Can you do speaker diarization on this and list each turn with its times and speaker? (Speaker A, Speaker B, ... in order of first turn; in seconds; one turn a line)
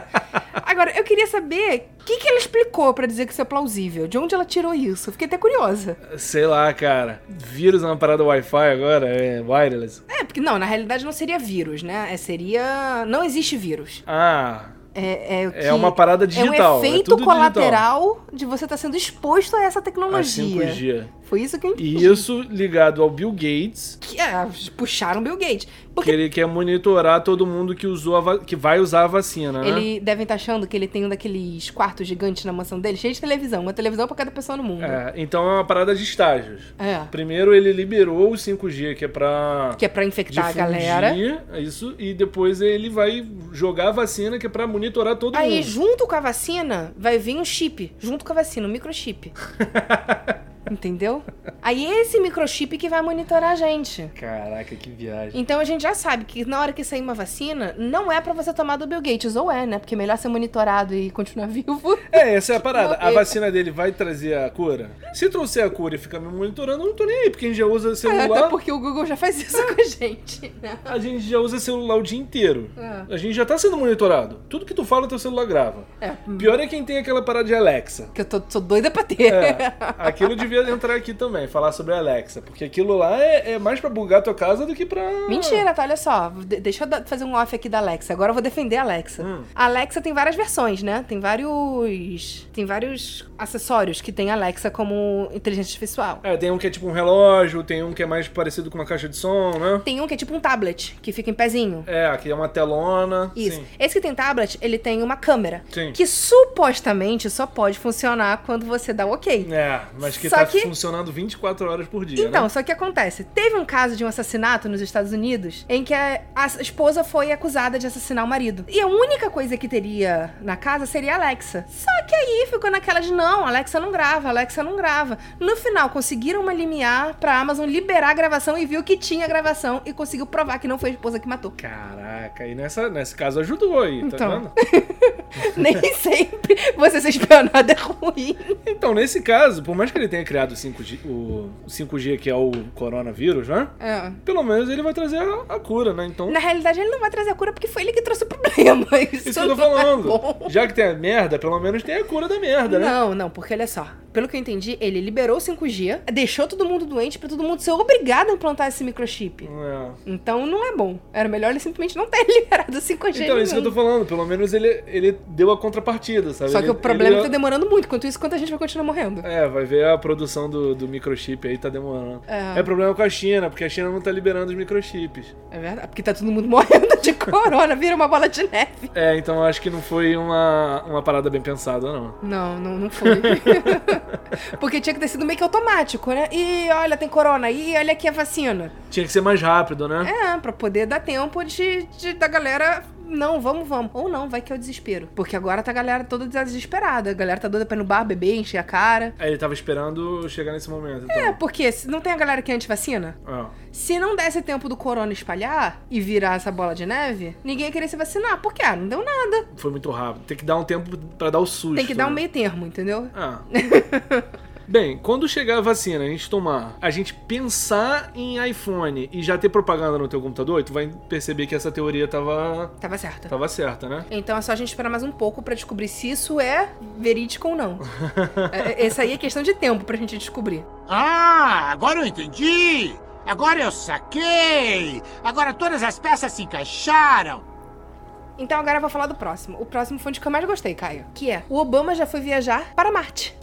Speaker A: 0.5-6.0
Speaker B: 6.0-10.0
Speaker A: 10.1-14.0
Speaker B: 14.1-14.8
Speaker A: 14.9-22.3
Speaker B: 15.5-17.9
Speaker B: 20.1-21.1
Speaker B: 21.8-24.0
Speaker A: 24.0-26.2
Speaker B: 26.0-29.9
Speaker A: 29.6-35.0
Speaker B: 34.8-45.8
Speaker A: 36.8-37.1
Speaker A: 39.8-41.2
Speaker A: 45.3-49.3
Speaker B: 49.6-50.4
Speaker A: 50.7-54.1
Speaker B: 54.1-55.4
Speaker A: 55.3-63.4
Speaker B: 62.1-68.6
Speaker A: 68.0-71.0
Speaker B: 70.9-78.1
Speaker A: 72.8-73.1
Speaker A: 76.0-76.6
Speaker A: 78.1-80.5
Speaker B: 79.2-85.6
Speaker A: 85.3-96.2
Speaker B: 89.2-89.5
Speaker B: 96.2-99.9
Speaker A: 99.8-101.9
Speaker B: 101.9-103.7
Speaker A: 103.4-109.5
Speaker B: 105.7-106.0
Speaker B: 109.4-112.5
Speaker A: 110.0-110.7
Speaker A: 112.2-131.6
Speaker B: 131.6-134.5
Speaker A: 134.0-138.6
Speaker B: 135.5-135.8
Speaker B: 138.7-143.7
Speaker A: 143.8-144.2
Speaker B: 144.2-146.4
Speaker A: 146.3-150.6
Speaker B: 149.2-153.0
Speaker A: 152.7-159.5
Speaker B: 159.4-160.0
Speaker A: 160.1-163.8
Speaker B: 163.1-167.3
Speaker A: 166.5-169.3
Speaker B: 169.2-175.3
Speaker A: 172.3-172.7
Speaker A: 175.5-178.9
Speaker B: 178.9-182.2
Speaker A: 182.2-188.8
Speaker B: 183.0-184.2
Speaker B: 188.9-190.1
Speaker A: 190.0-199.2
Speaker B: 199.2-201.4
Speaker A: 201.1-203.2
Speaker B: 203.2-203.6
Speaker A: 203.7-209.5
Speaker B: 209.5-212.2
Speaker A: 211.7-214.3
Speaker B: 213.1-213.5
Speaker B: 214.7-222.8
Speaker A: 222.8-223.3
Speaker B: 223.3-224.1
Speaker A: 224.1-227.9
Speaker B: 227.9-228.9
Speaker A: 228.5-230.7
Speaker C: 230.9-237.4
Speaker A: 238.4-243.3